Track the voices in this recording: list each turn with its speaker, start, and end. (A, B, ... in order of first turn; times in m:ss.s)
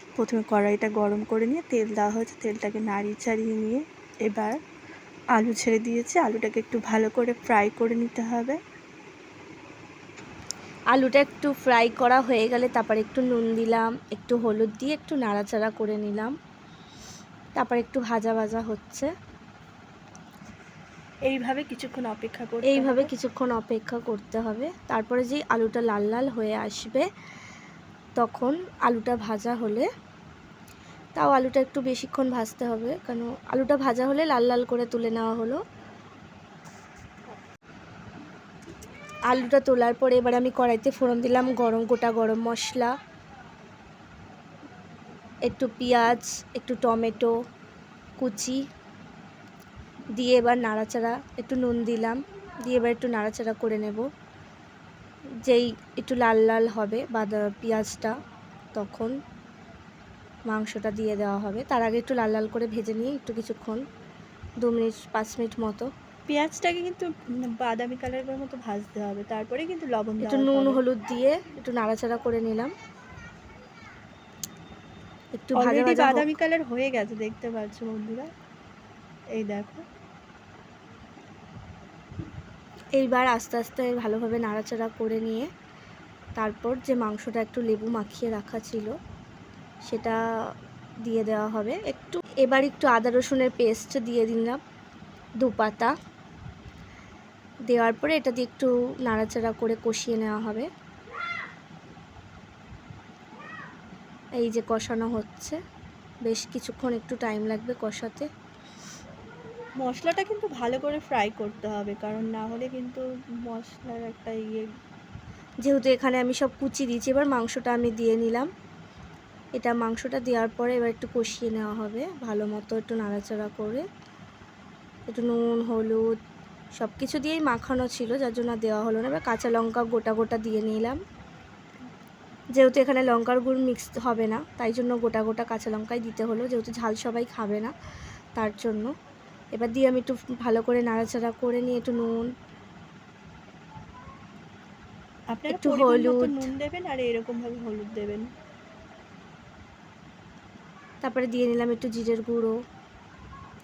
0:00.2-0:04.6 A
0:05.3-0:08.6 A
0:10.9-0:16.3 B
0:17.6-0:19.1 B
0:21.3-0:23.1 A
0:22.7-0:27.0 B
0:28.2-0:29.9 B
0:31.2-0:35.6 B
0:39.3-0:42.9 B
0:45.5-0:47.3 B
0:48.2-0:48.6 B
0:50.2-0:54.0 B
0:55.4-0:58.1 B
0:58.7-0:59.1 B
1:00.5-1:03.8 B
1:04.6-1:05.9 B
1:06.3-1:10.8 A
1:10.2-1:12.7 B
1:15.4-1:16.3 B
1:15.6-1:18.3 A
1:19.3-1:19.8 A
1:23.0-1:25.5 B
1:26.4-1:28.9 B
1:29.9-1:30.2 B
1:31.0-1:34.6 B
1:35.4-1:35.9 B
1:37.7-1:40.7 B
1:44.4-1:45.6 B
1:46.3-1:48.3 B
1:49.8-1:54.7 A
1:55.6-1:58.5 B
1:59.6-2:03.8 B
2:05.1-2:06.1 B
2:06.8-2:11.0 B
2:12.6-2:17.7 B
2:18.4-2:18.9 B
2:19.5-2:22.3 B
2:25.3-2:28.3 A
2:25.5-2:26.4 B
2:31.0-2:32.6 B